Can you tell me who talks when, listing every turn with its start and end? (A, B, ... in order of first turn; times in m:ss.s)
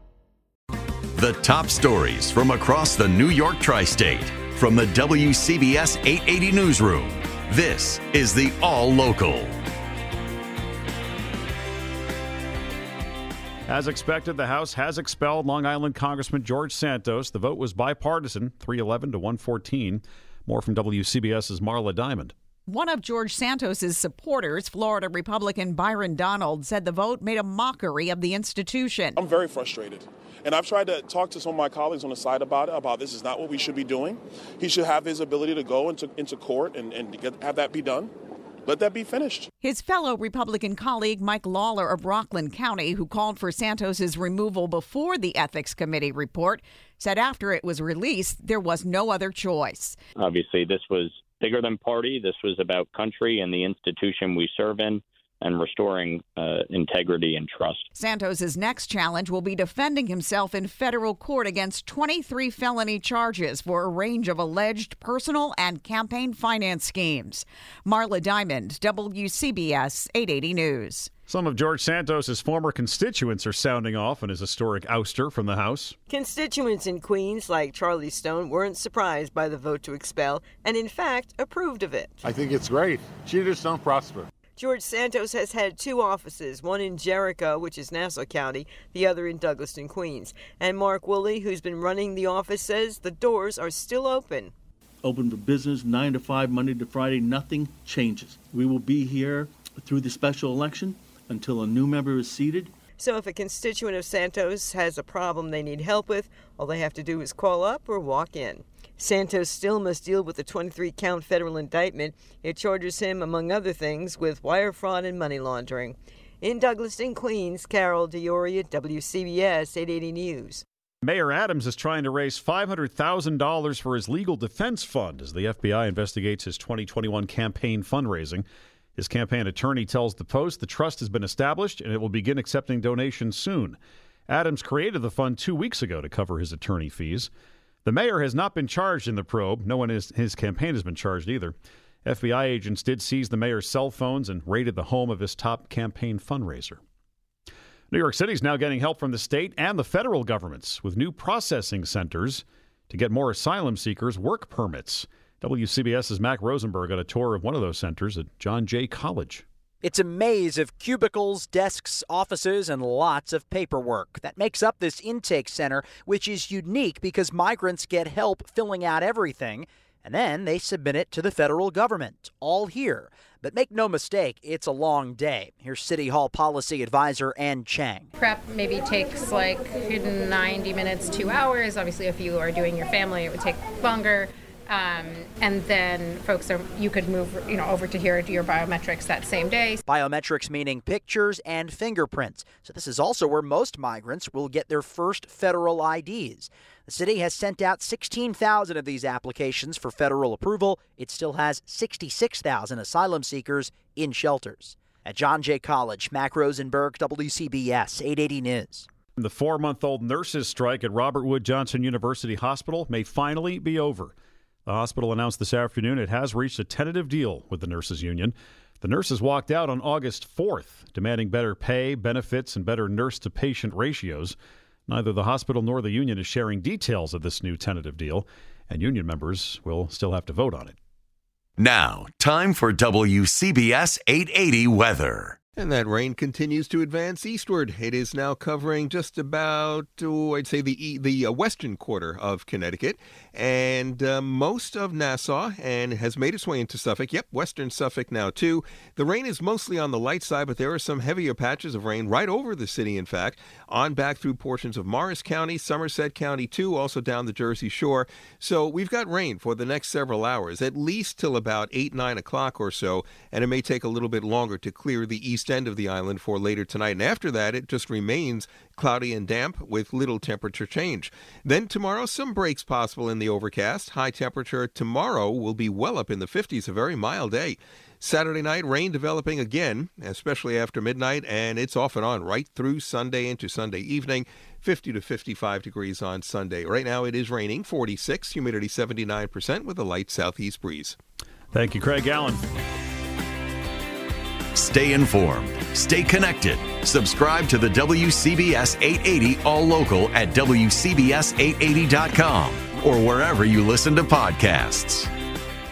0:01.1-0:09.6 A
0:13.7-0:22.3 B
0:22.7-0:29.2 C
0:29.2-0:38.1 D
0:38.7-0:39.5 D
0:39.6-0:50.0 C
0:50.2-0:57.9 E
0:57.9-1:11.1 C
1:11.3-1:15.9 B
1:16.1-1:22.2 F
1:22.2-1:24.3 G
1:24.6-1:34.5 F
1:35.0-1:42.7 H
1:43.0-2:00.6 F
2:01.0-2:08.4 B
2:09.0-2:17.3 B
2:17.8-2:26.8 B
2:27.9-2:39.4 B
2:39.8-2:58.1 I
2:58.2-3:09.8 J
3:09.9-3:28.9 I
3:29.2-3:34.1 B
3:34.6-3:44.4 B
3:44.9-3:50.8 B
3:51.6-3:55.4 A
3:55.6-4:51.0 K
4:51.5-4:52.4 B
4:54.5-5:05.1 A